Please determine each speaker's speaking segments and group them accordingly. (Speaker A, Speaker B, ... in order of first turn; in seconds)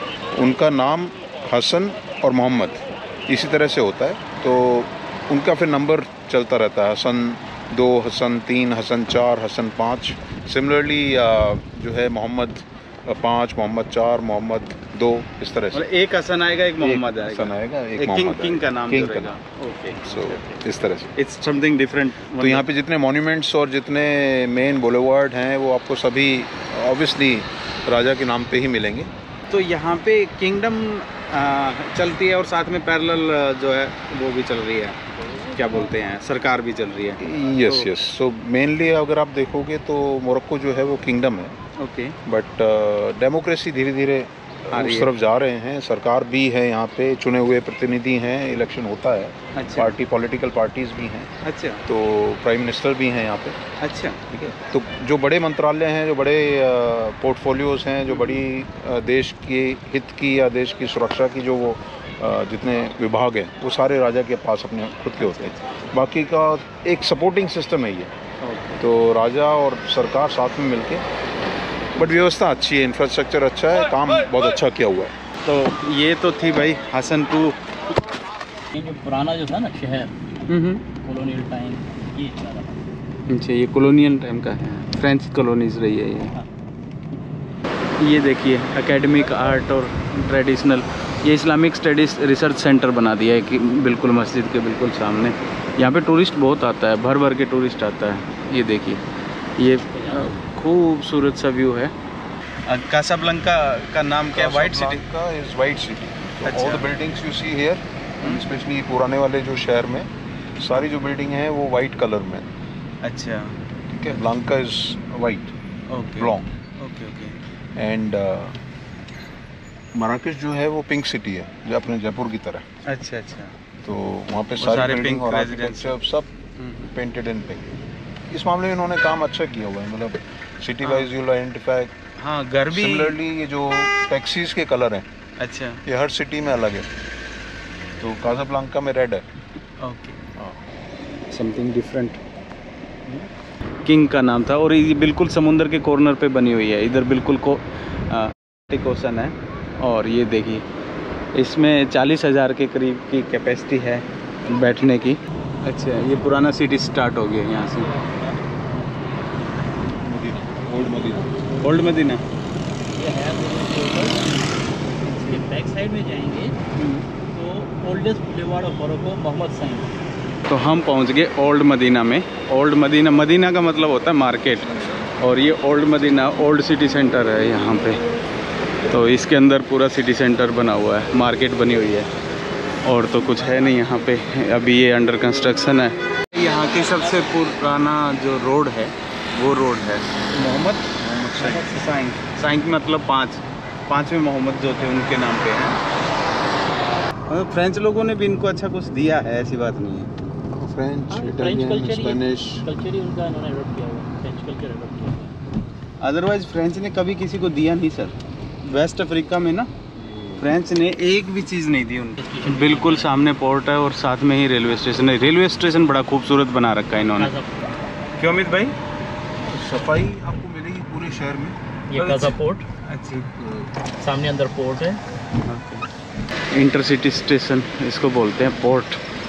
Speaker A: 0.3-15.8, 16.8-19.3, 20.0-21.1, 22.4-29.1, 37.2-41.5, 42.2-51.3, 51.8-53.6, 54.3-68.1, 68.8-71.0, 72.0-75.1, 104.3-112.5, 113.9-115.5, 116.2-116.5, 117.8-118.6, 119.9-122.6, 123.8-126.3, 126.9-127.8, 128.3-131.9, 132.7-135.0, 135.8-136.9, 138.0-139.2, 160.0-161.4, 191.0-191.6, 200.6-202.6, 209.9-210.5, 219.4-221.6, 223.4-223.7
Speaker B: 15.7-20.6, 21.1-22.6, 29.5-37.9, 41.8-42.2, 44.7-45.1, 49.5-50.0, 51.4-51.8, 53.8-54.2, 58.1-58.4, 65.2-65.6, 68.4-68.8, 75.4-77.6, 80.5-80.8, 83.3-86.3, 88.0-99.0, 99.6-101.9, 102.7-105.0, 106.5-106.9, 113.0-114.2, 115.9-117.4, 122.8-123.6, 124.6-126.0, 126.6-126.9, 130.8-131.1, 132.2-133.2, 135.4-135.8, 139.8-140.2, 141.3-142.2, 143.8-150.6, 151.3-157.9, 161.6-162.2, 165.1-165.4, 166.8-167.0, 170.5-178.0, 178.9-182.1, 182.8-190.9, 191.4-195.8, 197.3-200.1, 206.0-208.1, 208.6-209.7, 210.4-217.3, 218.2-218.7, 221.9-223.3, 225.4-225.8, 226.5-229.0
Speaker C: 78.7-80.2, 81.0-82.8, 99.9-100.4, 157.5-160.6, 162.9-164.6, 165.2-166.6, 167.3-169.9, 191.4-191.9, 201.1-205.3, 212.2-213.1, 217.1-217.7, 221.9-222.6, 224.0-225.0